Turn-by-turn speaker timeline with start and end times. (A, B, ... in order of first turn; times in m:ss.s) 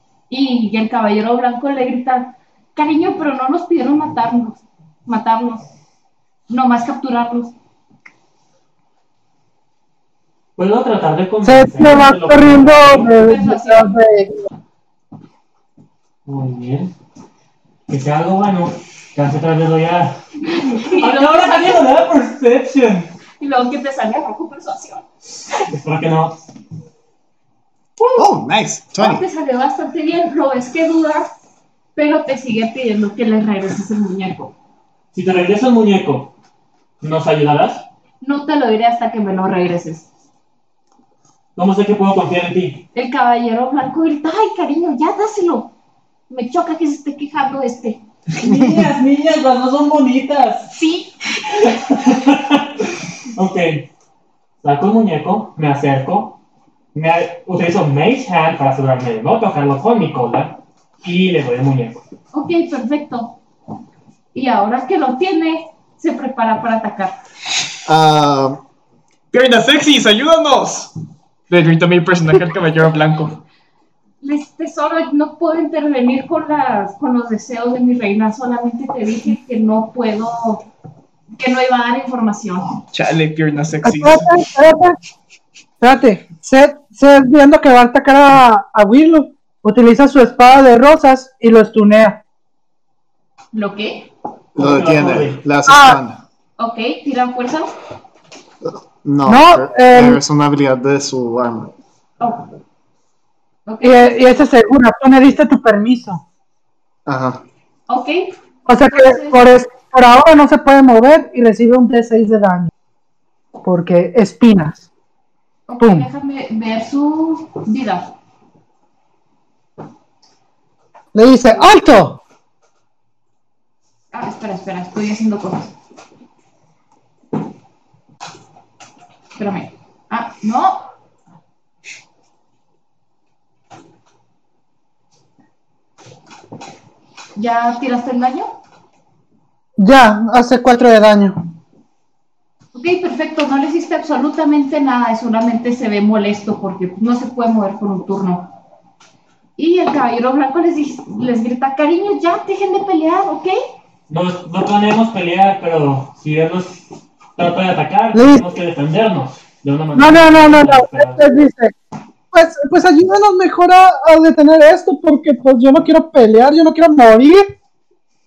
0:00.3-0:05.7 A
0:06.5-0:07.5 A
0:10.6-0:13.1 B
0:11.4-0:14.4 C
0:13.1-0:13.9 A
0:16.3-0:16.9 B
0:17.9-0:20.2 B
0:20.4-0:21.9 A
0:20.7-0:23.1 B
0:23.4-0:25.0 A
0:25.6-0:26.4 B
0:28.2-0:29.2 D
0:29.0-0:31.3 A
0:32.0-0:34.5 A
0:35.1-0:36.3 B
0:37.0-0:37.9 B
0:38.2-0:40.1 A
0:41.6-0:42.8 B
0:42.9-0:45.7 A
0:46.3-0:48.0 A
0:48.4-0:50.7 B
0:48.4-0:48.8 D
0:50.7-0:51.2 A
0:51.5-0:53.9 B
0:54.6-0:56.4 B
0:56.9-1:02.0 B
1:02.3-1:03.4 A
1:04.3-1:07.2 A
1:07.9-1:08.6 D
1:09.3-1:10.9 E
1:11.5-1:13.4 E
1:14.2-1:20.6 A
1:21.4-1:22.8 A
1:22.9-1:24.3 E
1:23.8-1:25.0 C
1:25.8-1:32.2 C
1:33.5-1:34.1 A
1:34.6-1:36.2 D
1:34.6-1:35.4 B
1:35.7-1:36.0 C
1:36.6-1:37.7 A
1:38.6-1:41.7 D
1:39.3-1:40.2 C
1:42.2-1:42.5 A
1:43.7-1:44.5 A
1:43.8-1:46.2 C
1:47.1-1:47.4 D
1:47.9-1:48.4 A
1:48.7-1:52.7 C
1:48.9-1:49.5 A
1:53.6-1:54.8 C
1:55.7-1:58.2 A
1:55.8-1:56.1 C
2:01.1-2:02.2 C
2:04.1-2:05.7 A
2:09.4-2:10.9 A
2:17.4-2:18.6 A
2:19.8-2:21.4 C
2:22.8-2:28.6 A
2:29.6-2:33.6 A
2:34.1-2:41.2 B
2:38.1-2:38.4 C
2:40.0-2:41.7 C
2:42.3-2:47.5 C